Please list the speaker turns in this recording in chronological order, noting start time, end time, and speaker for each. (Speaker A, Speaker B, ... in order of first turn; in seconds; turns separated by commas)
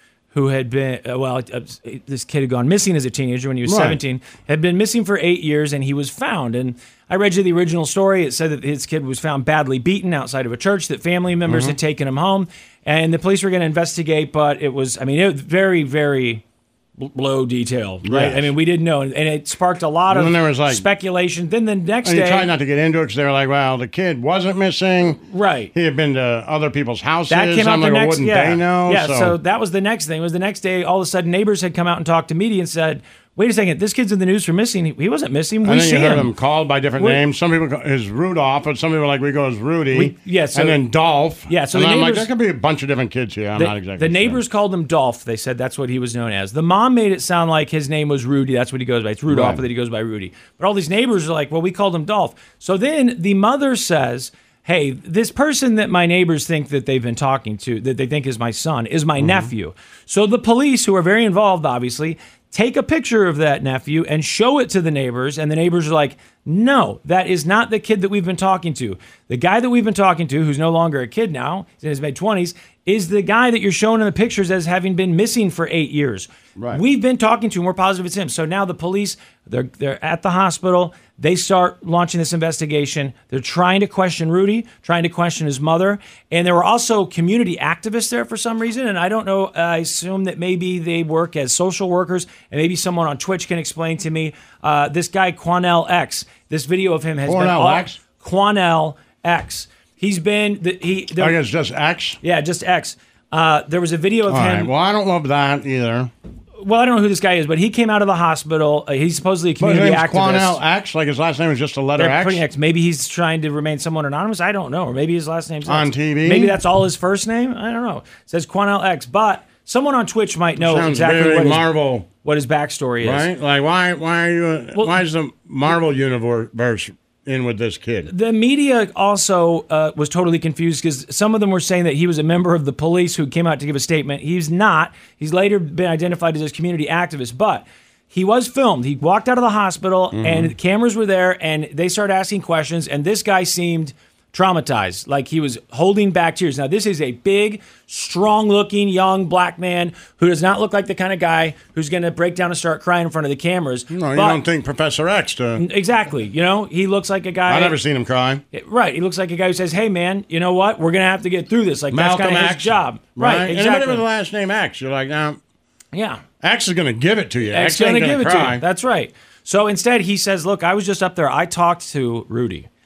Speaker A: 0.3-16.4, Speaker B: 3.7-4.0, Speaker B: 11.5-11.8, Speaker A: 17.0-22.5, Speaker B: 18.1-18.5, Speaker B: 20.1-20.9, Speaker B: 22.1-25.2, Speaker A: 25.3-25.7, Speaker B: 25.7-29.4, Speaker A: 27.3-36.3, Speaker B: 35.6-44.4, Speaker A: 39.9-40.8, Speaker A: 41.5-42.3, Speaker A: 43.6-101.4, Speaker B: 49.3-49.6, Speaker B: 59.2-59.5, Speaker B: 76.6-76.8, Speaker B: 97.2-98.0, Speaker B: 101.2-102.2, Speaker A: 102.2-104.7, Speaker B: 104.3-106.1, Speaker A: 106.6-110.6, Speaker B: 109.6-112.4, Speaker A: 112.0-121.7, Speaker B: 115.7-116.6, Speaker B: 120.6-122.1, Speaker A: 122.2-123.3, Speaker B: 123.0-128.1, Speaker A: 128.1-154.4, Speaker B: 140.1-140.5, Speaker B: 153.9-155.6, Speaker A: 155.6-157.8, Speaker B: 157.5-158.4, Speaker A: 158.5-164.0, Speaker B: 161.9-165.4, Speaker A: 165.9-166.2, Speaker B: 166.4-168.6, Speaker A: 167.5-172.7